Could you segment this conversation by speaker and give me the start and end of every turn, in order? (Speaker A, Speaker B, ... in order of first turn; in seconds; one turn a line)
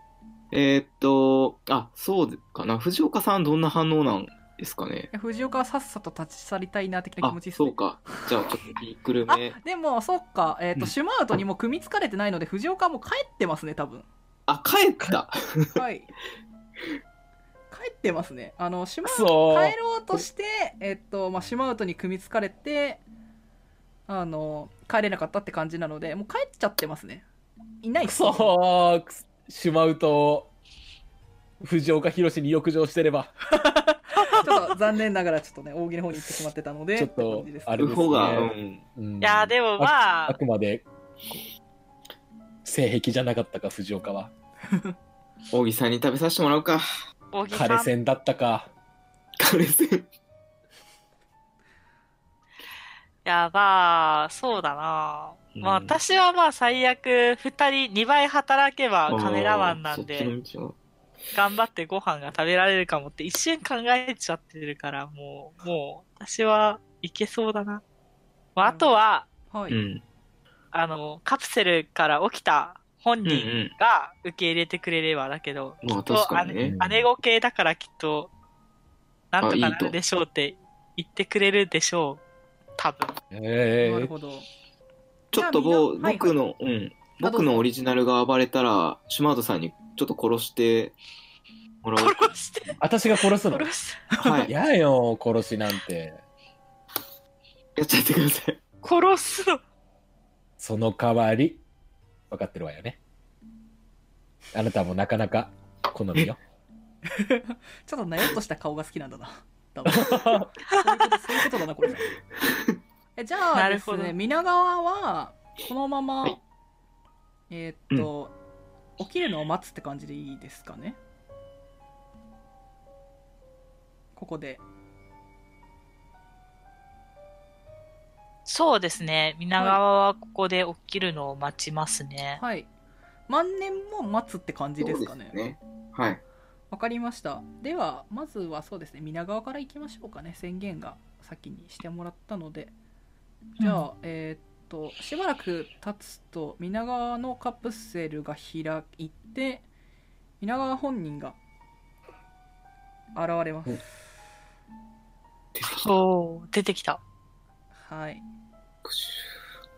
Speaker A: 0.5-5.1
Speaker B: 5.1-8.3
Speaker A: 7.2-9.6
Speaker B: 9.3-14.1
Speaker A: 14.5-15.8
Speaker B: 15.8-16.1
Speaker B: 17.7-23.0
Speaker C: 19.1-20.2
Speaker B: 24.1-27.2
Speaker B: 27.8-28.6
Speaker C: 28.0-30.5
Speaker C: 31.6-33.3
Speaker B: 33.6-38.4
Speaker C: 37.0-41.4
Speaker A: 37.8-38.8
Speaker D: 39.2-40.4
Speaker C: 42.6-44.3
Speaker A: 45.5-46.9
Speaker D: 47.3-47.9
Speaker C: 47.5-48.7
Speaker A: 49.4-50.1
Speaker D: 53.2-60.3
Speaker A: 55.5-56.0
Speaker A: 59.1-60.8
Speaker D: 61.3-67.8
Speaker D: 68.6-69.3
Speaker B: 68.6-68.9
Speaker B: 69.5-69.8
Speaker A: 69.7-70.0
Speaker D: 70.7-78.3
Speaker A: 73.2-73.7
Speaker A: 75.8-76.8
Speaker C: 76.6-77.1
Speaker D: 79.3-82.2
Speaker A: 79.4-80.0
Speaker D: 82.8-83.2
Speaker C: 83.3-84.1
Speaker B: 83.8-84.5
Speaker A: 85.3-91.0
Speaker B: 85.3-86.3
Speaker B: 87.2-87.7
Speaker A: 91.8-92.4
Speaker D: 92.0-94.0
Speaker C: 92.8-93.7
Speaker B: 94.1-94.5
Speaker A: 94.1-94.5
Speaker C: 94.4-96.2
Speaker A: 97.8-98.6
Speaker D: 98.8-99.6
Speaker C: 100.6-101.6
Speaker C: 102.3-103.0
Speaker C: 104.5-106.4
Speaker B: 107.1-112.1
Speaker C: 109.8-110.5
Speaker B: 113.2-116.4
Speaker D: 113.5-114.1
Speaker B: 117.5-118.3
Speaker B: 119.0-121.0
Speaker B: 124.2-124.6
Speaker D: 128.5-132.4
Speaker B: 132.4-132.7
Speaker B: 133.3-135.3
Speaker A: 134.8-136.2
Speaker B: 136.7-142.7
Speaker B: 143.6-149.7
Speaker B: 150.4-151.4
Speaker B: 153.2-153.8
Speaker A: 155.5-156.0
Speaker D: 155.6-157.0
Speaker B: 157.8-158.2
Speaker A: 158.8-159.3